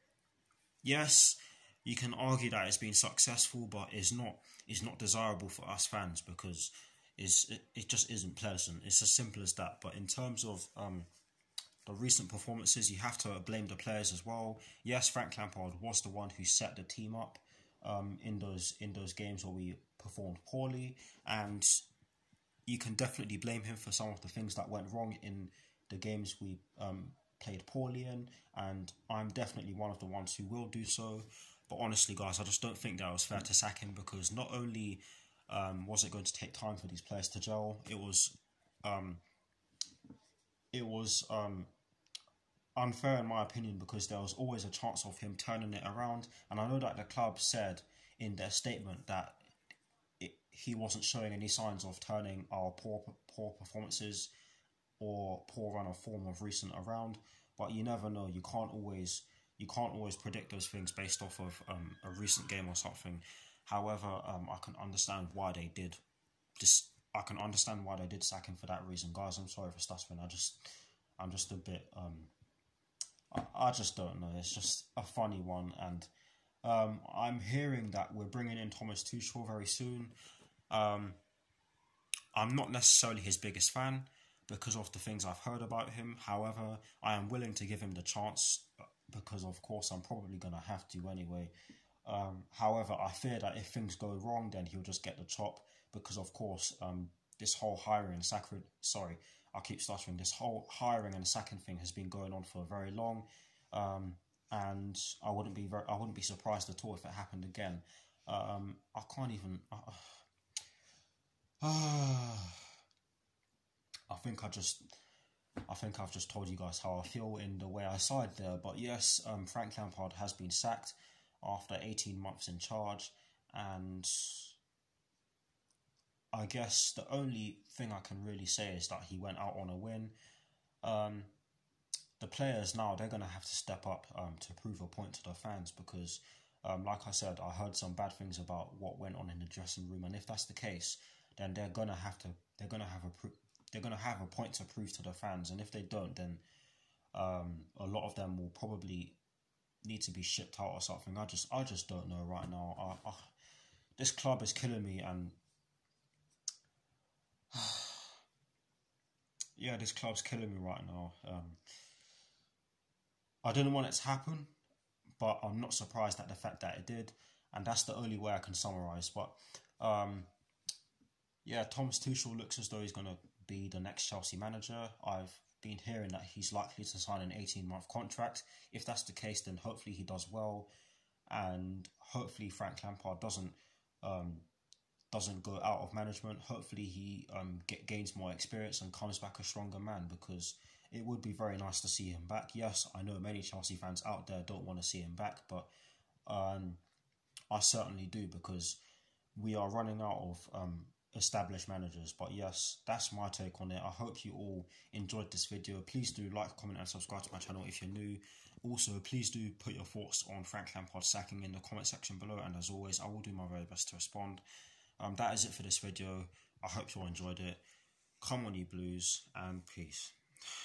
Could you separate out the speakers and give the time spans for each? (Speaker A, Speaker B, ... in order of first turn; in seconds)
Speaker A: 0.8-11.1, 11.8-21.8, 22.7-39.2, 40.7-41.7, 42.8-49.4, 50.2-54.3, 55.0-66.0, 66.6-72.3, 73.3-76.1, 76.6-80.1, 80.7-81.2, 82.3-91.5, 92.0-110.2, 111.6-112.6, 114.1-114.9, 115.7-124.5, 126.3-130.1, 130.8-131.3, 132.2-146.4, 147.1-149.2, 149.8-153.3, 154.0-155.4, 157.5-158.1, 159.6-161.6, 163.4-164.5, 165.2-170.3, 171.4-180.7, 181.3-184.4, 185.1-195.7, 196.2-196.8, 197.5-198.8, 199.3-214.4, 215.0-217.6, 218.2-220.2